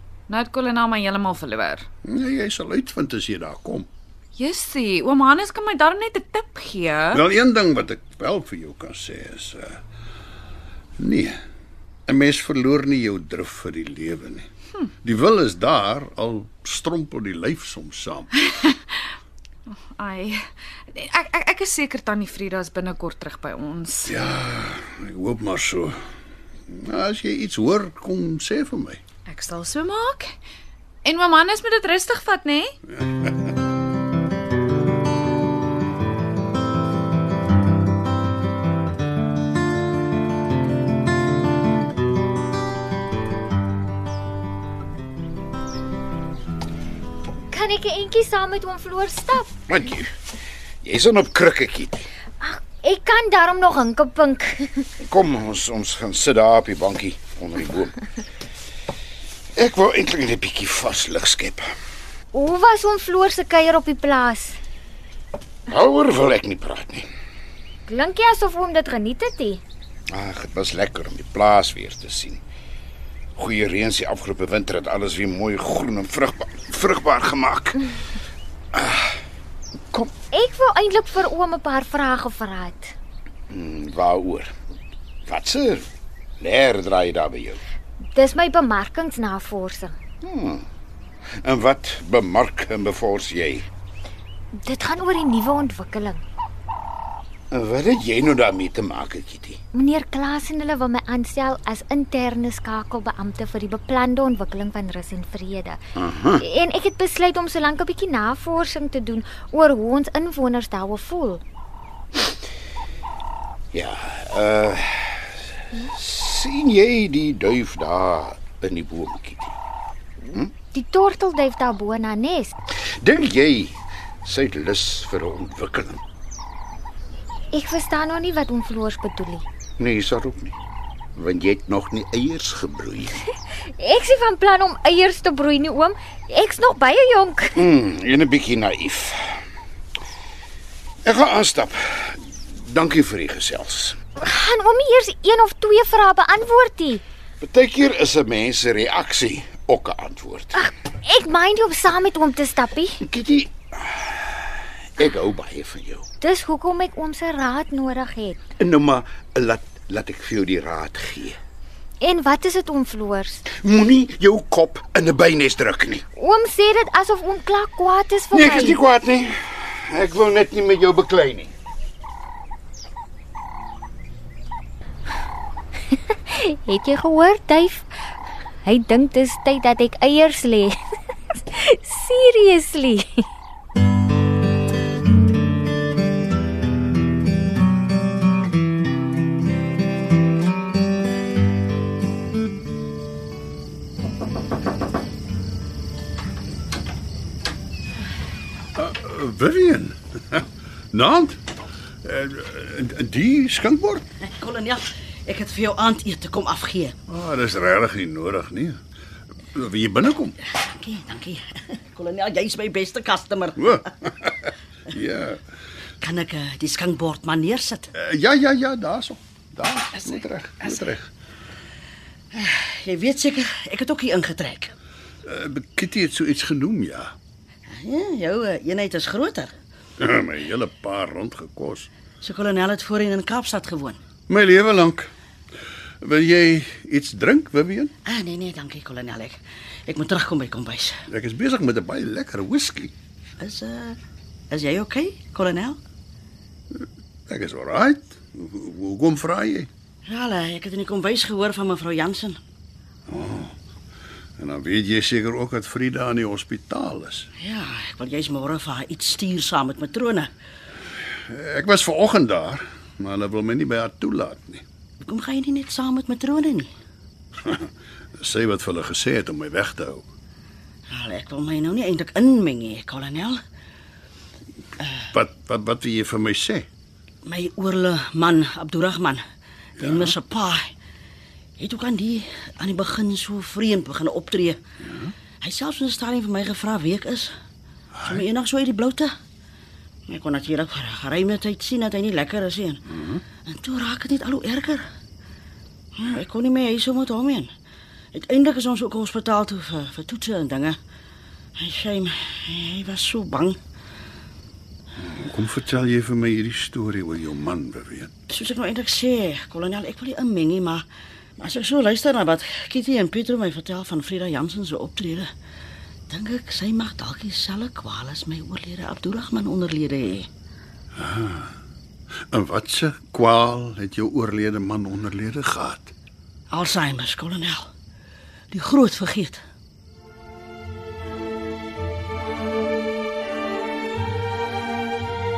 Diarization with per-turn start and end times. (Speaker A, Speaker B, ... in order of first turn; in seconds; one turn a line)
Speaker A: 0.3-1.9
Speaker B: 2.0-3.9
Speaker A: 4.3-7.2
Speaker B: 7.1-9.8
Speaker B: 11.0-11.4
Speaker B: 12.1-14.5
Speaker B: 15.0-18.4
Speaker A: 19.9-24.1
Speaker B: 24.1-26.0
Speaker B: 26.7-29.0
Speaker A: 29.3-30.3
Speaker A: 31.0-32.8
Speaker B: 32.9-33.3
Speaker C: 47.5-49.6
Speaker D: 49.7-50.1
Speaker D: 50.8-52.1
Speaker C: 52.4-54.9
Speaker D: 55.0-58.0
Speaker D: 59.5-61.7
Speaker C: 62.3-64.6
Speaker D: 65.7-67.0
Speaker C: 67.9-69.6
Speaker D: 70.1-72.4
Speaker D: 73.4-77.9
Speaker D: 78.7-79.2
Speaker C: 80.3-82.9
Speaker D: 83.5-84.5
Speaker D: 85.2-85.8
Speaker D: 86.4-87.6
Speaker C: 88.1-90.0
Speaker D: 90.2-90.6
Speaker D: 91.4-93.7
Speaker C: 94.5-96.2
Speaker D: 97.5-99.6
Speaker C: 99.7-105.8
Speaker D: 106.0-106.4
Speaker C: 106.4-111.4
Speaker D: 113.7-119.6
Speaker C: 120.7-122.5
Speaker D: 123.0-126.0
Speaker C: 127.5-129.4
Speaker D: 129.8-130.5
Speaker D: 131.2-133.2
Speaker C: 133.7-137.6
Speaker D: 137.5-139.4
Speaker D: 141.0-143.9
Speaker C: 144.2-147.0
Speaker D: 147.4-150.6
Speaker C: 150.5-153.0
Speaker D: 153.0-156.0
Speaker C: 156.2-158.4
Speaker D: 158.6-161.4
Speaker C: 162.0-163.4
Speaker D: 163.5-166.0
Speaker C: 166.2-168.8
Speaker D: 168.3-171.5
Speaker C: 176.2-177.9
Speaker C: 178.6-180.8
Speaker C: 181.3-183.2
Speaker B: 198.8-201.4
Speaker B: 202.0-204.1
Speaker E: 204.2-206.9
Speaker B: 207.1-208.8
Speaker B: 209.5-210.4
Speaker E: 210.4-213.8
Speaker B: 213.6-215.4
Speaker E: 216.0-217.9
Speaker B: 217.9-221.1
Speaker E: 222.3-224.7
Speaker B: 225.2-227.1
Speaker E: 227.8-229.5
Speaker B: 230.0-231.9
Speaker E: 232.2-234.0
Speaker B: 234.3-235.1
Speaker B: 236.0-237.9
Speaker E: 238.0-241.0
Speaker B: 241.1-242.9
Speaker E: 243.4-244.0
Speaker E: 244.5-245.8
Speaker B: 246.7-249.7
Speaker E: 250.1-252.4
Speaker B: 253.1-253.5
Speaker B: 254.4-257.3
Speaker E: 257.4-260.3
Speaker B: 261.3-264.6
Speaker E: 265.0-266.7
Speaker B: 267.4-270.0
Speaker E: 270.9-273.4
Speaker B: 275.1-276.6
Speaker E: 277.2-279.2
Speaker E: 279.8-280.7
Speaker B: 279.8-280.1
Speaker E: 281.6-284.6
Speaker E: 285.4-287.3
Speaker B: 287.9-288.2
Speaker E: 288.0-289.1
Speaker E: 290.1-294.8
Speaker B: 292.9-293.2
Speaker E: 296.0-297.5
Speaker E: 298.1-300.8
Speaker E: 301.6-303.6
Speaker B: 305.0-308.1
Speaker E: 308.3-310.8
Speaker E: 311.4-315.3
Speaker E: 316.1-320.3
Speaker B: 321.0-321.5
Speaker B: 322.3-325.9
Speaker E: 326.5-327.6
Speaker E: 328.5-329.4